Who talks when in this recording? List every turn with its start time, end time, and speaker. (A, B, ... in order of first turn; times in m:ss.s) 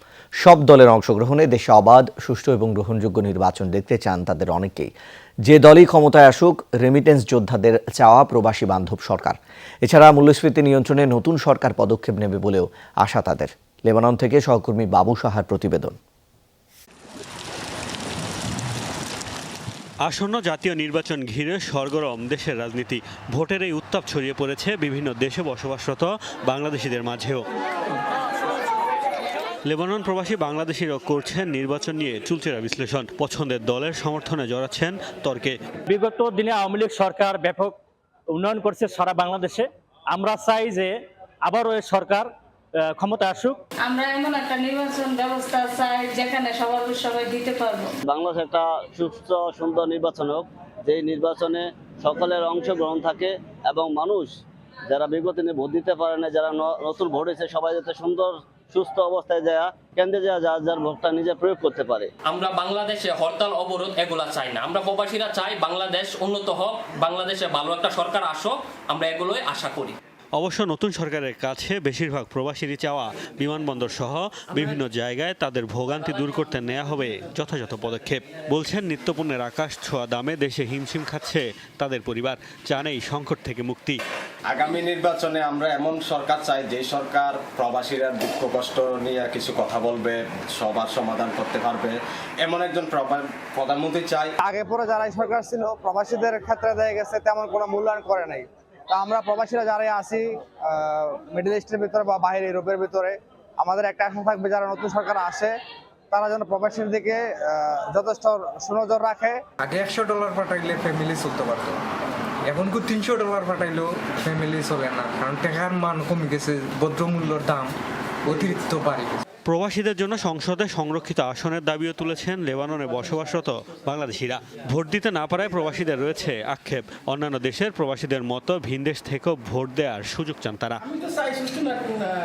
0:00.4-0:04.9 A
0:05.4-0:16.0 A
0:20.0-0:27.5 B
0:29.7-0:35.6 B
0:35.9-0:43.6 C
0:43.8-0:47.9 D
0:48.1-0:54.4 E
0:54.9-1:02.1 E
1:02.3-1:10.0 F
1:10.4-1:24.0 B
1:24.5-1:34.3 G
1:34.4-1:45.5 H
1:46.1-1:49.4 H
1:49.6-1:51.8 I
1:52.4-1:57.7 I
1:58.3-1:59.2 I
1:59.5-2:10.8 B